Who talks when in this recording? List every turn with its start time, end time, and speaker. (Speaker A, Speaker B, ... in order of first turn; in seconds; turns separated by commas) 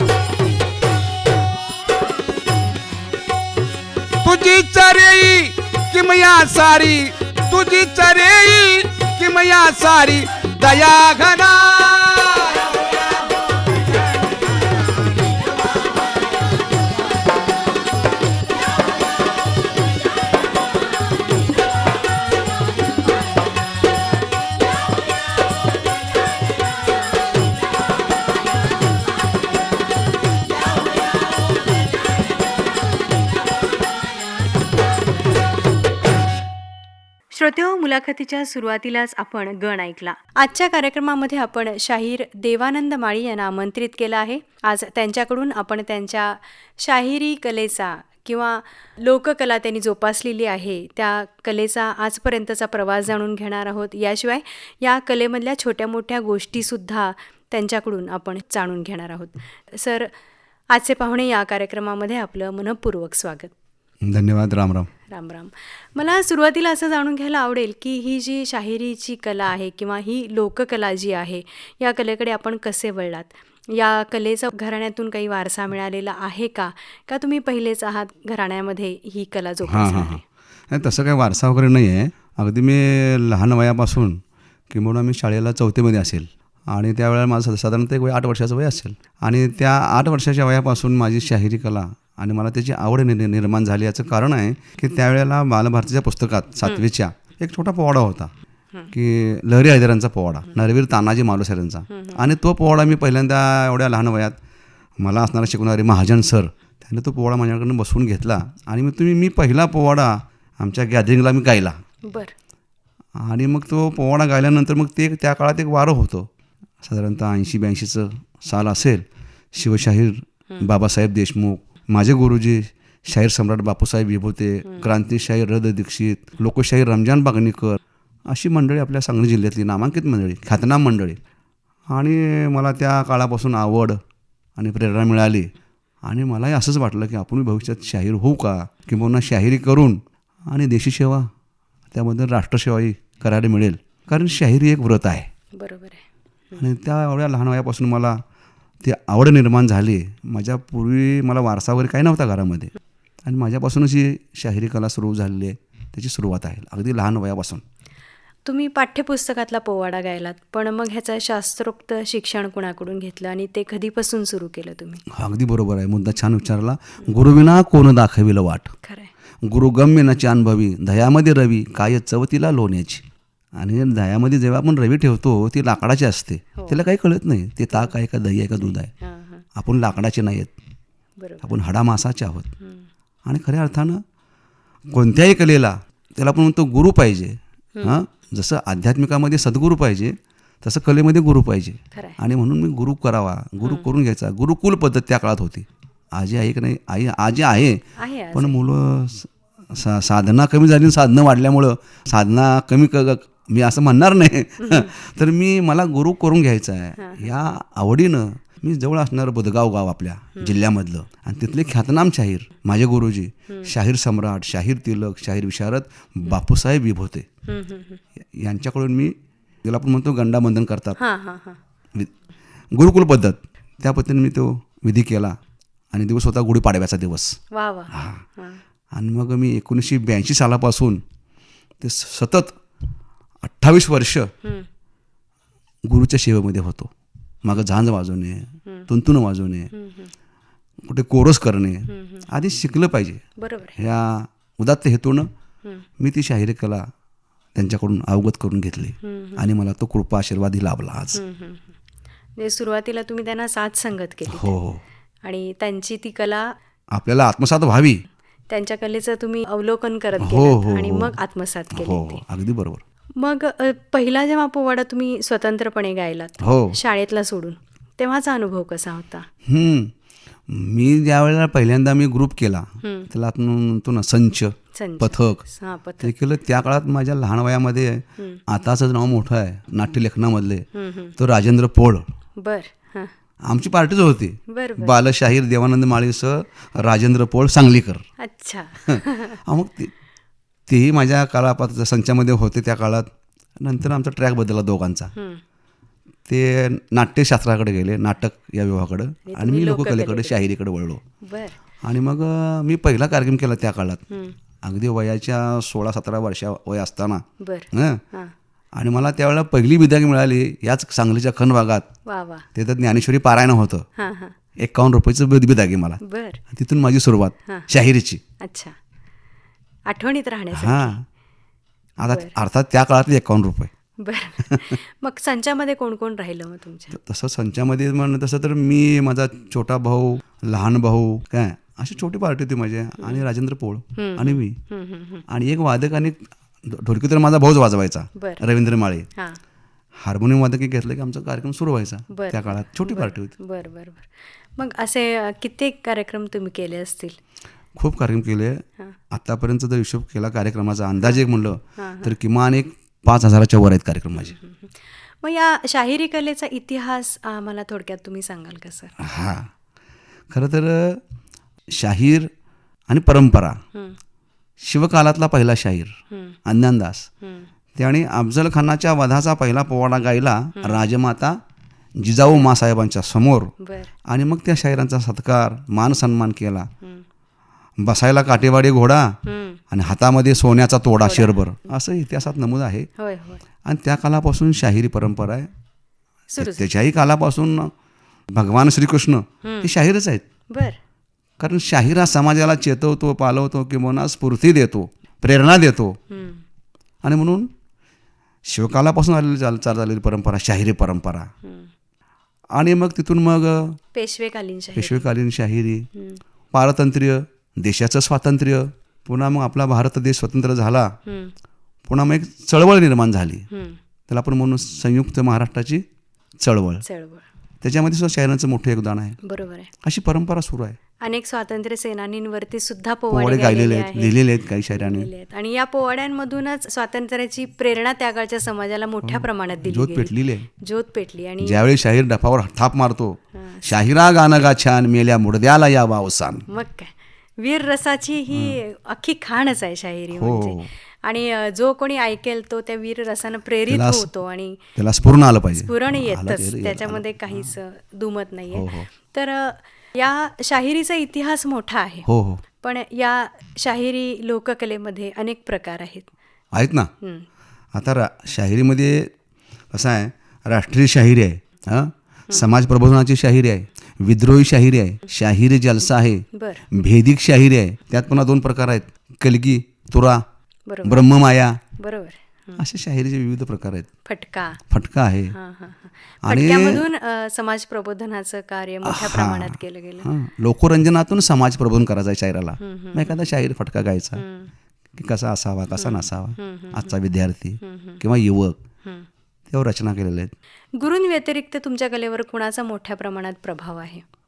Speaker A: 4.2-13.3, Speaker B: 37.3-60.1, Speaker B: 60.7-63.5, Speaker C: 64.0-64.9, Speaker B: 65.1-80.2, Speaker C: 79.7-98.3, Speaker C: 98.9-104.4, Speaker B: 101.9-102.3, Speaker C: 105.0-111.8, Speaker B: 112.1-112.3, Speaker C: 113.2-116.3, Speaker C: 116.8-131.2, Speaker C: 131.9-134.0, Speaker C: 134.6-135.5, Speaker C: 136.0-141.3, Speaker C: 141.9-145.3, Speaker B: 145.5-146.7, Speaker C: 146.6-148.2, Speaker C: 148.8-152.7, Speaker C: 153.2-157.6, Speaker B: 158.4-165.0, Speaker C: 165.1-168.7, Speaker B: 168.8-169.1, Speaker C: 169.4-173.0, Speaker C: 173.6-178.9, Speaker B: 176.6-176.8, Speaker B: 179.0-179.4, Speaker C: 179.5-180.5, Speaker B: 181.2-181.6, Speaker C: 181.4-182.5, Speaker B: 182.6-182.9, Speaker C: 183.2-184.0, Speaker C: 184.9-217.2, Speaker B: 187.8-188.0, Speaker B: 191.9-192.2, Speaker B: 198.0-198.6, Speaker B: 204.6-204.9, Speaker B: 207.0-207.3, Speaker B: 213.5-213.7, Speaker B: 217.4-218.0, Speaker C: 218.3-221.0, Speaker B: 221.0-221.6, Speaker C: 222.7-225.3, Speaker C: 225.9-227.4, Speaker B: 227.5-228.6, Speaker C: 227.9-228.2, Speaker C: 228.9-231.0, Speaker C: 231.8-232.6, Speaker C: 233.4-234.3, Speaker B: 234.4-234.7, Speaker C: 235.8-236.9, Speaker C: 237.4-239.7, Speaker B: 239.7-240.1, Speaker C: 240.8-243.2, Speaker B: 241.9-242.2, Speaker B: 243.4-243.8, Speaker C: 243.8-245.3, Speaker C: 246.0-246.9, Speaker C: 247.5-251.2, Speaker B: 249.0-249.5, Speaker B: 251.1-251.8, Speaker B: 252.4-254.6, Speaker C: 254.3-254.8, Speaker B: 255.2-256.5, Speaker C: 256.9-258.0, Speaker B: 258.5-262.2, Speaker C: 260.2-261.1, Speaker C: 261.7-262.8, Speaker B: 263.2-269.3, Speaker C: 266.4-266.7, Speaker C: 269.4-269.9, Speaker C: 270.5-275.4, Speaker B: 272.8-273.1, Speaker B: 274.7-276.1, Speaker C: 276.0-280.6, Speaker B: 280.7-281.1, Speaker C: 281.2-282.0, Speaker B: 282.4-283.1, Speaker C: 283.4-288.1, Speaker B: 284.5-285.0, Speaker B: 288.2-289.4, Speaker C: 288.9-289.9, Speaker C: 290.7-293.1, Speaker C: 293.6-295.1, Speaker B: 295.1-295.4, Speaker C: 296.3-301.0, Speaker B: 299.3-300.3, Speaker B: 301.2-301.6, Speaker C: 301.8-304.0, Speaker B: 304.1-304.4, Speaker C: 304.6-308.0, Speaker B: 307.4-308.3, Speaker C: 308.8-311.9, Speaker B: 312.1-312.4, Speaker C: 312.5-313.9, Speaker B: 314.0-314.3, Speaker C: 314.6-318.2, Speaker B: 316.0-316.4, Speaker B: 318.4-318.8, Speaker B: 319.9-320.9, Speaker C: 320.5-321.0, Speaker C: 322.0-323.7, Speaker B: 322.1-322.3, Speaker B: 324.0-327.0, Speaker C: 324.4-324.7, Speaker C: 326.9-334.6, Speaker B: 333.0-333.2, Speaker B: 333.9-335.2, Speaker C: 335.3-339.1, Speaker B: 338.1-338.4, Speaker C: 340.0-343.3, Speaker B: 342.1-347.2, Speaker C: 347.8-354.4, Speaker B: 351.8-352.1, Speaker B: 354.1-358.9, Speaker C: 359.0-359.5, Speaker C: 360.3-361.0, Speaker C: 361.7-362.3, Speaker C: 362.9-363.6, Speaker C: 364.6-365.9, Speaker B: 366.1-366.4, Speaker C: 366.4-367.1, Speaker B: 367.2-367.5, Speaker C: 367.8-371.4, Speaker B: 370.6-370.8, Speaker C: 372.0-373.5, Speaker B: 373.6-373.9, Speaker C: 374.1-376.7, Speaker C: 377.8-379.2, Speaker B: 379.2-379.6, Speaker C: 379.7-382.9, Speaker B: 381.0-381.4, Speaker B: 383.0-383.4, Speaker C: 383.6-385.5, Speaker B: 386.3-386.7, Speaker C: 386.4-387.7, Speaker C: 388.3-390.2, Speaker B: 389.4-389.7, Speaker B: 390.5-390.8, Speaker C: 391.4-396.0, Speaker B: 396.1-396.4, Speaker C: 397.0-397.5, Speaker C: 398.4-401.3, Speaker B: 401.4-401.7, Speaker C: 402.5-403.8, Speaker B: 403.9-405.1, Speaker C: 404.8-405.9, Speaker B: 405.9-406.2, Speaker C: 406.5-410.9, Speaker B: 411.1-411.3, Speaker C: 411.9-413.5, Speaker B: 413.5-413.8, Speaker C: 414.1-415.8, Speaker C: 416.4-416.8, Speaker B: 416.8-417.2, Speaker C: 417.6-419.2, Speaker B: 419.2-419.7, Speaker C: 419.8-420.8, Speaker B: 421.0-424.2, Speaker C: 423.1-425.1, Speaker B: 424.7-431.6, Speaker C: 429.0-430.5, Speaker C: 431.4-436.4, Speaker B: 433.3-433.8, Speaker B: 436.5-444.7, Speaker C: 438.3-438.6, Speaker C: 440.1-440.7, Speaker C: 443.7-444.1, Speaker C: 444.7-447.5, Speaker B: 445.5-452.1, Speaker C: 448.5-448.9, Speaker C: 452.1-452.4, Speaker B: 452.6-456.1, Speaker C: 456.5-456.9, Speaker B: 457.0-457.2, Speaker C: 457.7-459.1, Speaker C: 459.7-470.2, Speaker B: 466.3-466.7, Speaker B: 470.7-471.1, Speaker C: 470.8-471.6, Speaker B: 471.8-472.6, Speaker C: 472.6-473.9, Speaker B: 474.1-474.6, Speaker C: 474.7-475.3, Speaker B: 475.3-480.1, Speaker C: 476.2-476.8, Speaker C: 478.8-484.2, Speaker B: 482.6-483.2, Speaker B: 484.1-484.5, Speaker C: 485.0-488.6, Speaker B: 485.8-487.0, Speaker B: 487.6-488.0, Speaker C: 489.5-490.3, Speaker B: 490.8-494.0